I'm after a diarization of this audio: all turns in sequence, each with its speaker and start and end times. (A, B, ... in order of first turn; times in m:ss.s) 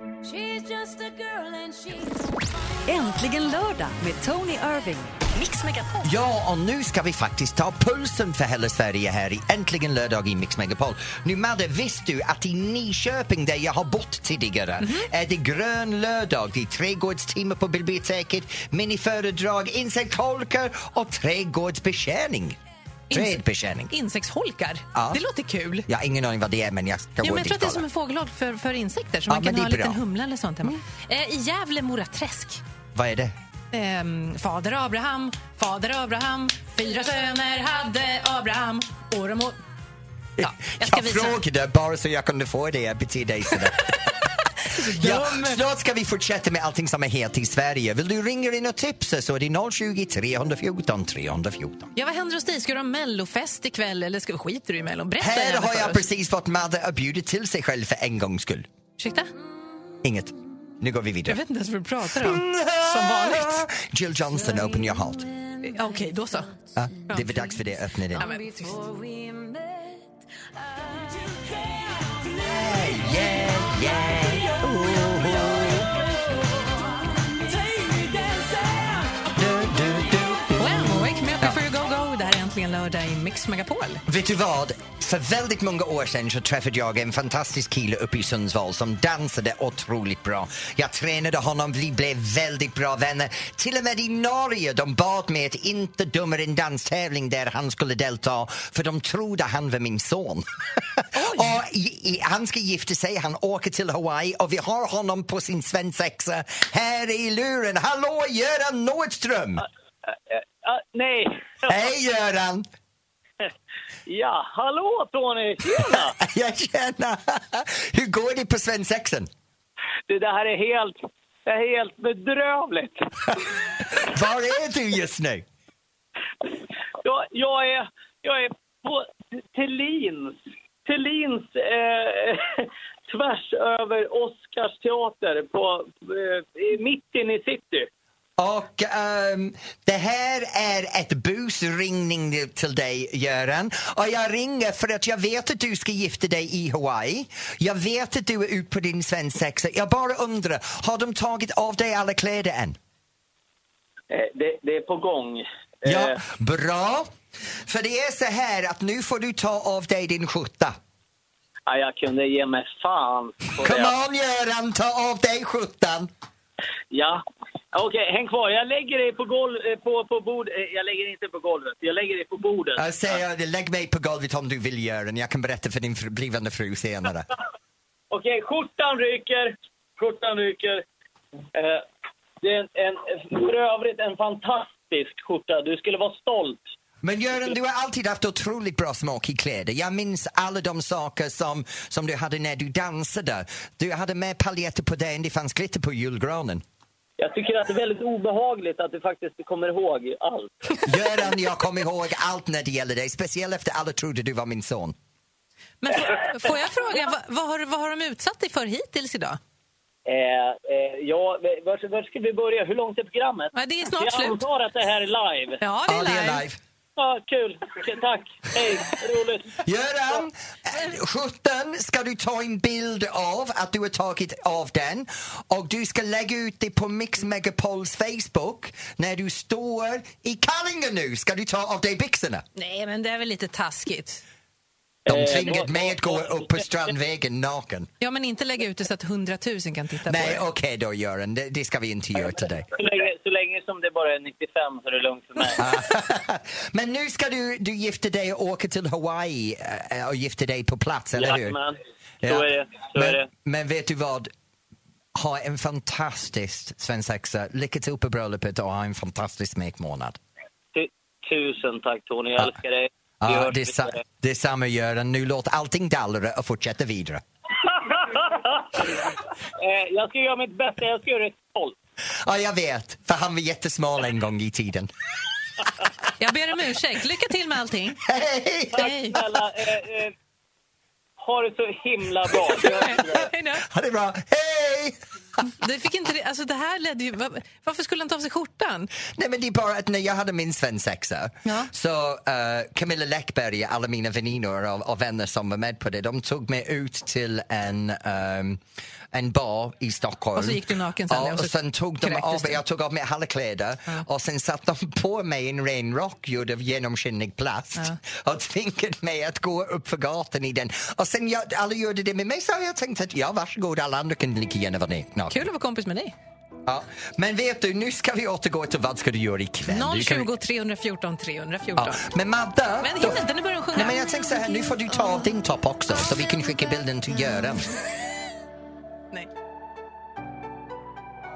0:00.2-0:02.2 A
0:02.9-0:06.1 A
0:06.0-0:22.6 B
0:14.8-0:15.1 C
0:23.1-0:25.9 C
0:23.1-0:23.9 B
0:24.9-0:25.2 B
0:25.9-0:27.8 B
0:27.2-0:32.6 C
0:29.3-0:30.0 B
0:32.9-0:33.4 B
0:33.7-0:39.6 C
0:40.4-0:44.2 B
0:40.4-0:41.4 C
0:44.7-0:45.6 C
0:44.7-0:51.9 B
0:52.0-0:56.0 C
0:55.2-0:58.7 B
0:59.0-0:59.3 C
1:00.0-1:01.4 B
1:01.2-1:03.7 C
1:02.1-1:05.3 B
1:05.6-1:06.5 C
1:06.8-1:08.3 B
1:07.1-1:07.5 C
1:08.1-1:08.8 C
1:08.6-1:10.0 A
1:12.3-1:16.0 B
1:17.5-1:19.1 C
1:19.3-1:21.6 B
1:20.6-1:24.0 C
1:24.1-1:49.6 B
1:41.1-1:41.6 C
1:50.1-1:51.7 D
1:51.6-1:52.7 B
1:54.1-1:56.1 D
1:55.8-1:59.3 B
2:00.1-2:03.3 D
2:03.9-2:05.4 B
2:07.0-2:17.9 D
2:18.4-2:32.8 B
2:34.1-2:36.2 D
2:35.9-2:37.1 B
2:37.6-2:40.8 B
2:41.7-2:43.9 D
2:43.6-2:46.1 B
2:46.9-2:47.2 D
2:47.7-2:52.9 D
2:52.8-2:57.3 B
2:58.1-3:00.8 D
3:01.5-3:01.8 D
3:02.4-3:06.6 D
3:07.0-3:16.6 B
3:17.2-3:20.8 D
3:20.8-3:24.9 B
3:25.8-3:29.4 C
3:30.1-3:35.6 D
3:33.6-3:34.4 C
3:35.6-3:36.4 C
3:35.9-3:36.6 B
3:37.0-3:39.6 D
3:39.6-3:52.4 B
3:52.6-3:54.2 C
3:55.1-3:56.6 D
3:55.1-3:57.9 B
3:58.0-4:00.4 C
4:00.1-4:02.7 B
4:02.7-4:05.6 D
4:05.6-4:11.6 B
4:11.2-4:13.3 D
4:12.2-4:14.3 B
4:15.1-4:20.2 B
4:20.7-4:24.0 D
4:23.2-4:27.2 B
4:27.6-4:31.7 D
4:32.2-4:34.9 B
4:36.2-4:38.0 C
4:38.0-4:38.9 B
4:38.8-4:39.2 C
4:38.8-4:40.1 D
4:41.2-4:43.2 D
4:42.6-4:43.6 C
4:43.5-4:45.0 B
4:45.6-4:48.9 C
4:49.1-4:58.6 B
4:51.4-4:51.7 C
4:59.1-5:15.4 B
5:00.4-5:02.6 C
5:15.3-5:16.1 C
5:16.6-5:20.3 B
5:19.7-5:22.0 C
5:21.8-5:27.7 B
5:22.8-5:25.2 C